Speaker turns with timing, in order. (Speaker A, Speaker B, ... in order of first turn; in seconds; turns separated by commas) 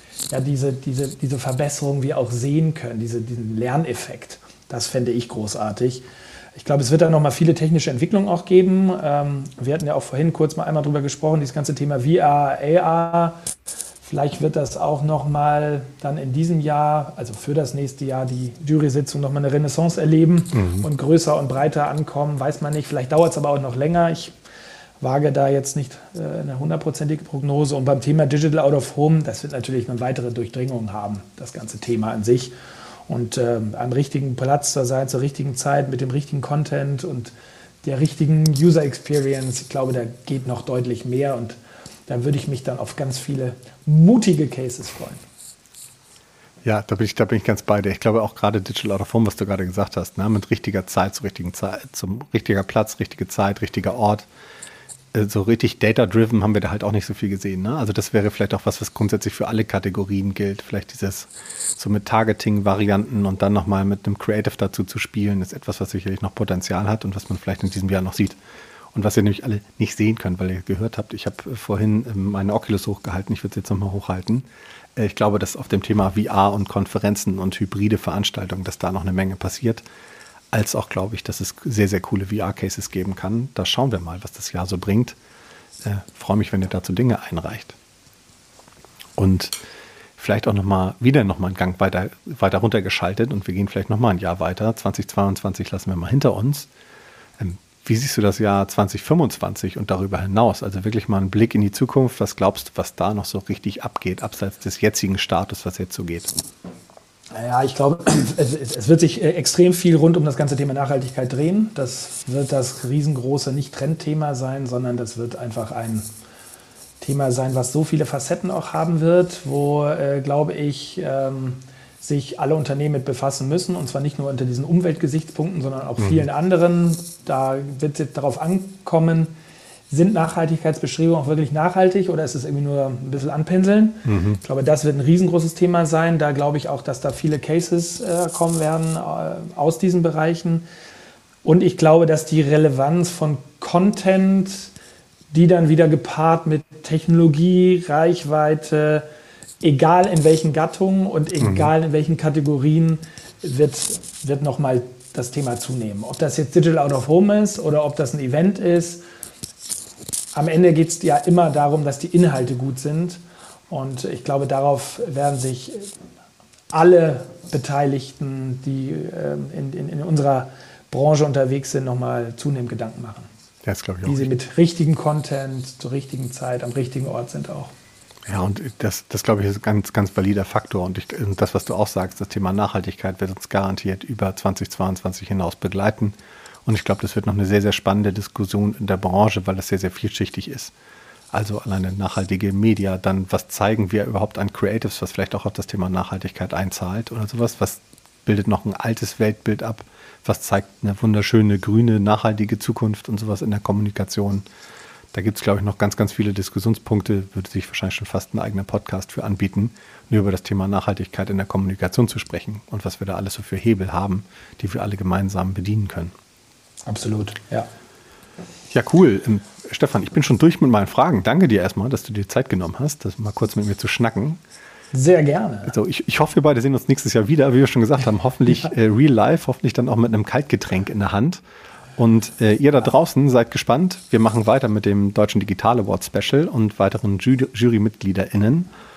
Speaker A: 0.3-13.4, Speaker A: 14.0-24.3, Speaker B: 20.6-20.8, Speaker A: 25.0-32.5, Speaker A: 33.1-45.2, Speaker B: 46.6-54.3, Speaker B: 55.1-68.4, Speaker B: 68.9-74.4, Speaker B: 75.0-79.8, Speaker B: 80.5-85.2, Speaker B: 85.8-87.7, Speaker B: 89.2-89.5, Speaker B: 90.2-96.7, Speaker B: 97.4-106.3, Speaker A: 107.3-116.1, Speaker A: 117.0-129.3, Speaker B: 126.0-126.2, Speaker A: 129.9-140.6, Speaker B: 134.1-134.4, Speaker A: 141.4-144.7, Speaker A: 145.3-149.1, Speaker A: 149.6-159.0, Speaker B: 151.4-151.7, Speaker A: 160.3-165.9, Speaker A: 166.7-173.3, Speaker B: 173.6-174.3, Speaker A: 174.0-177.7, Speaker B: 178.3-186.1, Speaker B: 186.7-190.7, Speaker B: 191.3-204.4, Speaker B: 205.1-216.1, Speaker A: 216.8-217.7, Speaker B: 218.7-224.4, Speaker A: 224.9-225.8, Speaker B: 225.7-231.4, Speaker B: 232.0-238.7